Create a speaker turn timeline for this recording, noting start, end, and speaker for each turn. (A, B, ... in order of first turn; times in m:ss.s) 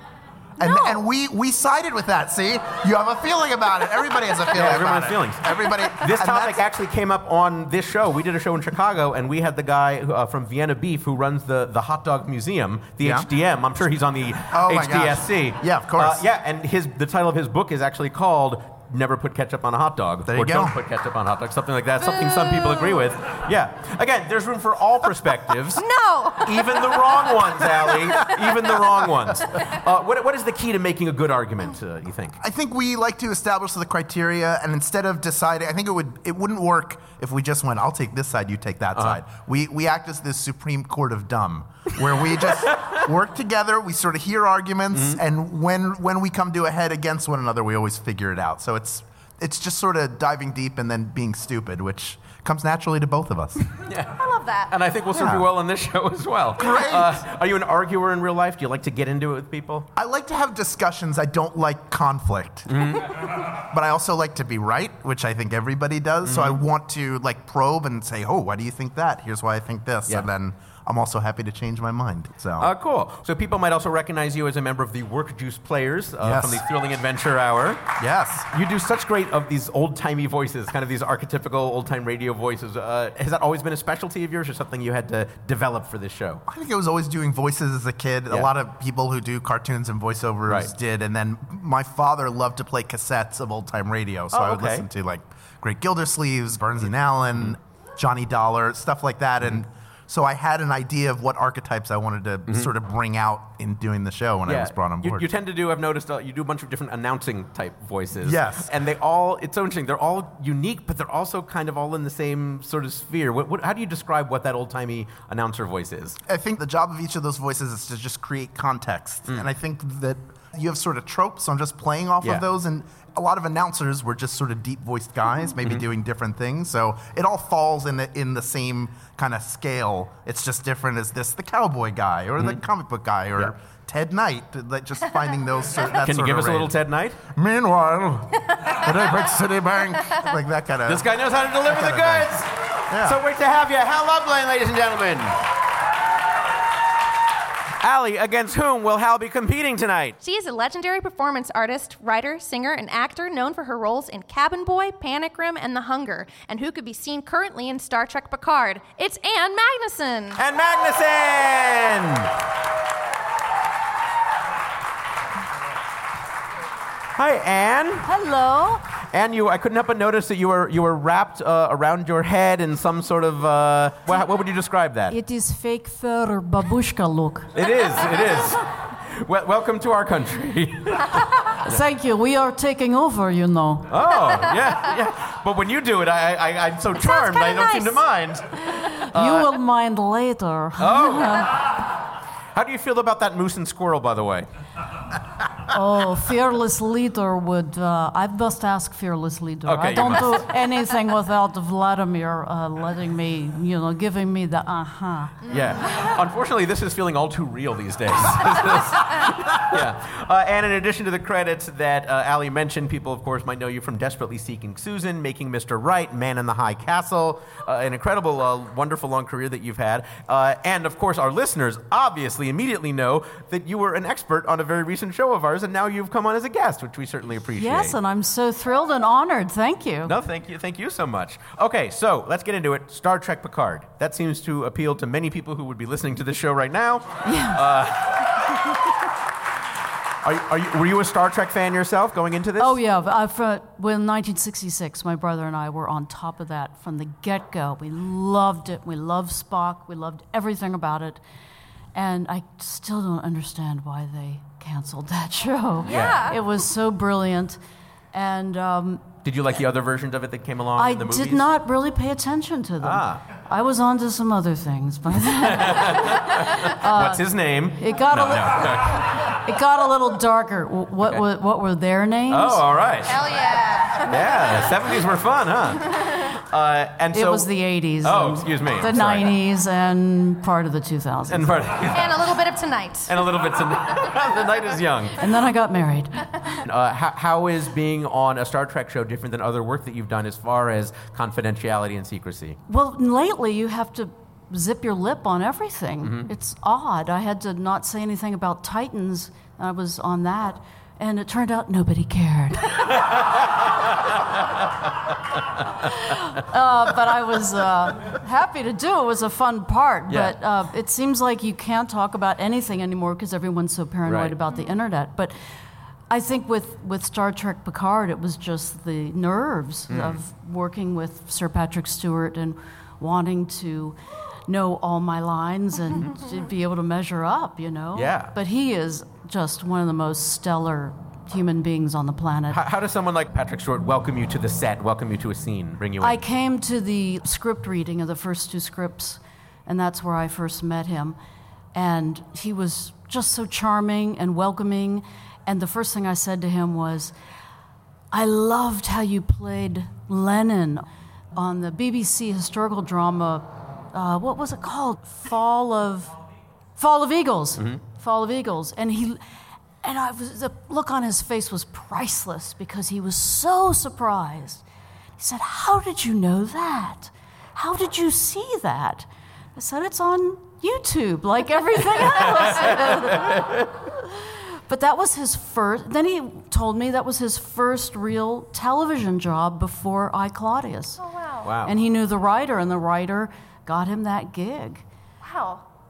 0:00.6-0:06.7 A
0:00.6-0:01.0 B
0:04.5-0:25.8 C
0:13.0-0:13.3 A
0:14.5-0:16.2 A
0:20.3-0:20.8 A
0:22.4-0:22.9 B
0:25.8-0:27.1 B
0:26.4-0:32.4 C
0:32.4-0:53.6 A
0:44.9-0:45.2 C
0:53.9-0:54.2 C
0:54.2-0:54.7 B
0:54.7-0:59.9 C
0:55.2-0:55.5 A
0:56.6-0:57.2 A
1:00.0-1:02.9 A
1:02.7-1:03.1 C
1:03.6-1:12.7 A
1:06.2-1:06.6 C
1:12.6-1:17.9 C
1:16.2-1:16.6 A
1:18.0-1:18.5 A
1:18.5-1:26.4 C
1:26.5-1:45.3 A
1:30.5-1:30.7 C
1:34.3-1:34.9 C
1:44.5-1:56.2 C
1:48.2-1:48.7 A
1:56.3-2:16.8 A
2:16.0-2:17.2 C
2:17.3-2:21.1 A
2:20.9-2:25.4 C
2:21.6-2:22.4 A
2:22.9-2:23.2 A
2:27.8-2:30.2 C
2:30.2-2:40.4 B
2:40.4-2:42.3 C
2:47.2-2:48.1 C
2:48.1-2:48.8 D
2:49.1-2:55.2 C
2:55.1-2:57.5 D
2:57.5-3:01.8 C
3:01.6-3:03.9 D
3:03.9-3:08.5 C
3:07.0-3:08.0 B
3:08.7-3:11.6 D
3:09.1-3:09.5 C
3:10.8-3:11.6 C
3:12.6-3:14.5 C
3:15.7-3:25.4 D
3:19.6-3:20.5 C
3:25.5-3:48.0 C
3:47.6-3:50.2 D
3:50.0-3:58.2 C
3:57.2-3:57.6 D
4:00.2-4:02.8 C
4:02.6-4:11.2 D
4:11.9-4:17.6 D
4:15.8-4:16.4 B
4:15.8-4:16.3 C
4:18.1-4:19.1 D
4:19.2-4:21.5 C
4:20.8-4:32.6 D
4:22.8-4:23.2 C
4:25.4-4:29.4 C
4:32.3-4:33.2 C
4:33.1-4:34.1 B
4:34.0-4:37.5 C
4:37.1-4:41.7 D
4:38.0-4:39.4 C
4:41.3-4:42.2 C
4:41.9-4:43.1 B
4:43.1-4:45.2 C
4:45.2-4:46.6 D
4:46.6-4:52.6 C
4:52.7-5:02.9 D
4:56.0-4:56.3 C
5:05.8-5:15.4 D
5:10.1-5:10.4 C
5:14.1-5:14.4 C
5:16.1-5:32.6 D
5:19.9-5:20.2 C
5:28.0-5:28.3 C
5:32.5-5:36.2 C
5:36.0-5:41.2 D
5:41.7-5:47.1 D
5:48.1-5:50.8 D
5:51.4-5:56.1 D
5:56.8-5:59.2 D
5:59.8-6:04.6 D
6:05.2-6:21.0 D
6:12.2-6:13.7 C
6:21.0-6:21.4 B
6:21.4-6:21.8 C
6:21.6-6:24.8 D
6:25.2-6:25.6 B